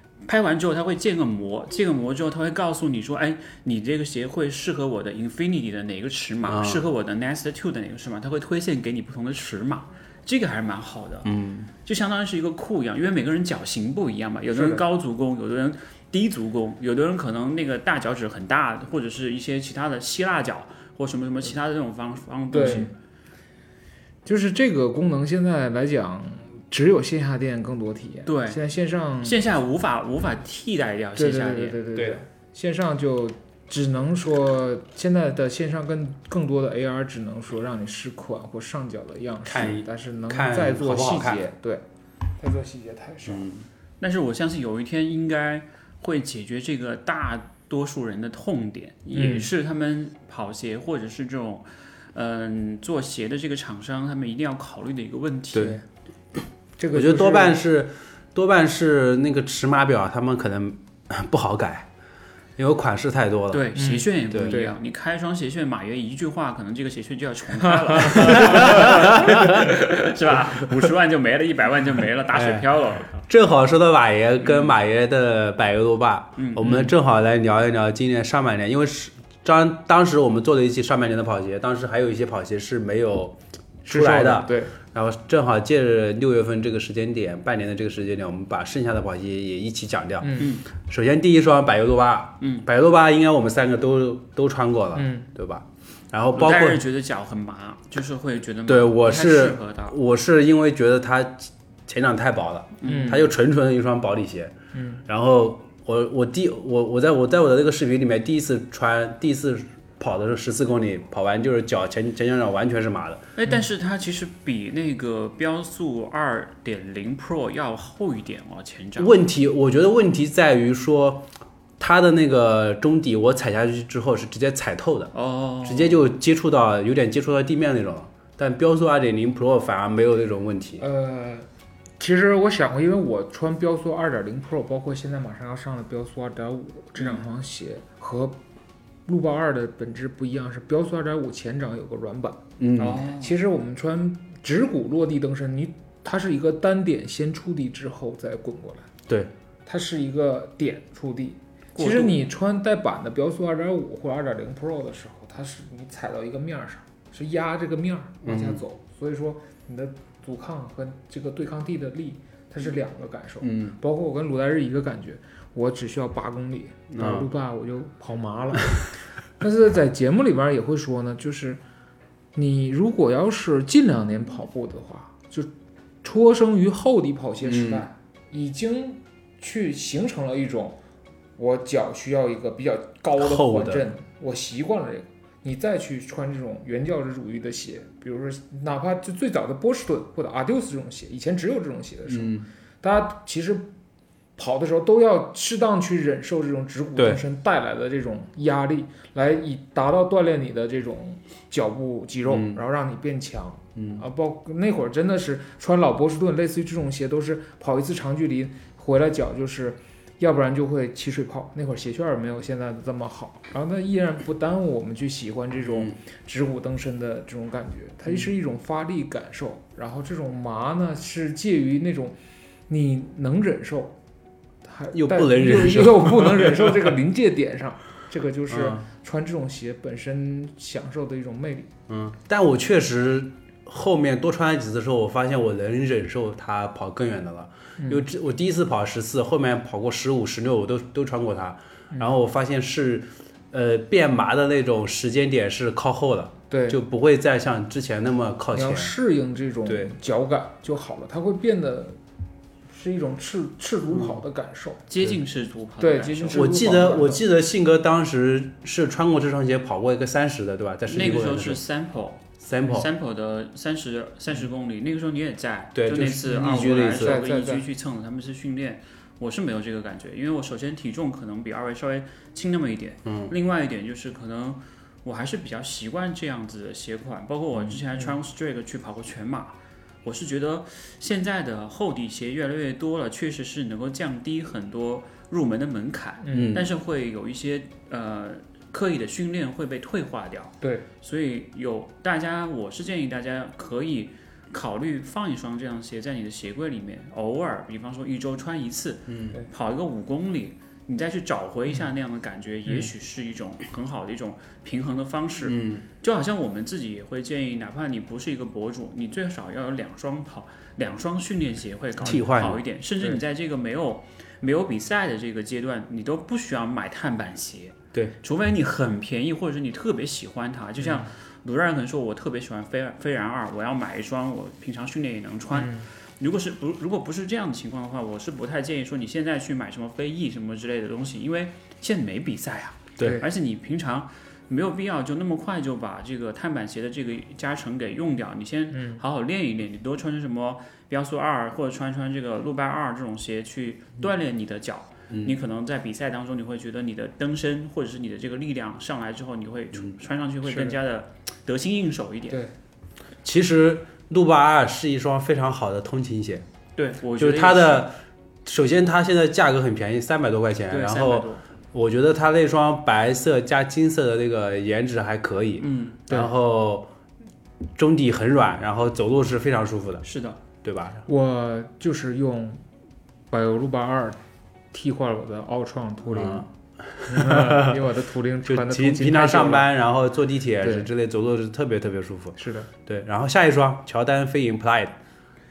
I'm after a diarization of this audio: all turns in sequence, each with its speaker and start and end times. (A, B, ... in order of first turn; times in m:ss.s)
0:00.2-0:22.9 A
0:06.4-0:06.8 B
0:11.2-0:11.7 B
0:14.5-0:14.8 C
0:22.5-0:22.9 C
0:24.3-0:29.4 C
0:28.3-0:28.6 A
0:29.2-0:31.8 A
0:31.2-0:41.8 C
0:32.0-0:32.2 B
0:39.4-0:41.4 B
0:42.4-0:43.5 C
0:43.3-0:43.7 B
0:44.0-0:55.8 A
0:49.1-0:49.5 C
0:55.6-0:55.8 C
0:56.8-0:57.6 C
0:56.9-1:01.9 B
1:02.6-1:03.7 B
1:03.5-1:13.2 A
1:03.8-1:04.8 C
1:04.3-1:04.6 B
1:08.1-1:08.4 C
1:08.1-1:09.7 B
1:12.3-1:12.7 B
1:13.2-1:36.8 B
1:14.5-1:14.7 A
1:16.4-1:16.7 A
1:16.6-1:16.9 C
1:23.9-1:24.7 C
1:30.2-1:30.6 C
1:30.4-1:30.6 A
1:32.4-1:32.7 A
1:34.9-1:35.3 C
1:36.4-1:40.0 A
1:38.7-1:44.5 B
1:42.8-1:43.2 A
1:42.8-1:43.3 C
1:44.7-1:45.0 C
1:45.1-1:53.3 B
1:53.4-1:59.1 A
1:59.0-2:10.8 B
2:05.1-2:06.1 A
2:10.8-2:11.5 C
2:12.0-2:18.4 C
2:17.0-2:17.2 A
2:19.1-2:28.9 C
2:22.6-2:23.1 B
2:22.8-2:23.3 A
2:29.7-2:48.8 C
2:31.8-2:32.2 A
2:38.2-2:38.6 B
2:43.4-2:43.8 B
2:46.9-2:47.3 B
2:49.4-2:51.6 C
2:52.4-2:55.5 C
2:56.0-3:00.8 C
2:57.4-2:57.9 B
3:01.4-3:13.7 C
3:03.2-3:03.9 B
3:12.1-3:12.5 B
3:14.4-3:42.2 C
3:22.3-3:22.6 B
3:23.8-3:24.0 B
3:42.7-3:44.0 C
3:44.6-3:51.7 C
3:44.9-3:46.9 B
3:48.5-3:48.8 B
3:51.9-4:08.9 B
3:57.8-3:58.0 C
4:06.5-4:06.8 C
4:08.5-4:12.0 C
4:09.7-4:09.9 B
4:12.7-4:14.9 C
4:13.9-4:14.2 B
4:14.9-4:16.5 A
4:15.8-4:17.2 C
4:16.3-4:21.6 B
4:20.9-5:52.4 A
4:22.4-4:22.9 B
4:25.8-4:27.2 B
4:26.5-4:27.7 C
4:33.0-4:33.3 B
4:46.2-4:46.6 C
4:46.3-4:46.7 B
4:50.6-4:50.9 C
4:59.1-4:59.4 B
5:05.4-5:05.9 B
5:12.0-5:12.6 B
5:20.8-5:21.1 C
5:25.5-5:25.9 C
5:33.0-5:33.2 B
5:33.0-5:33.3 C
5:38.7-5:39.0 C
5:45.1-5:45.4 B
5:50.5-5:50.8 C
5:53.2-5:56.4 B
5:56.8-5:57.9 A
5:57.2-6:06.9 B
6:00.7-6:01.4 A
6:05.6-6:06.0 A
6:07.8-6:10.0 B
6:10.0-6:10.4 A
6:10.6-6:11.0 B
6:11.1-6:12.6 C
6:13.3-6:14.2 C
6:14.7-6:16.5 C
6:16.1-6:17.8 B
6:17.0-6:19.7 C
6:18.5-6:25.0 B
6:20.6-6:20.9 C
6:22.4-6:22.7 C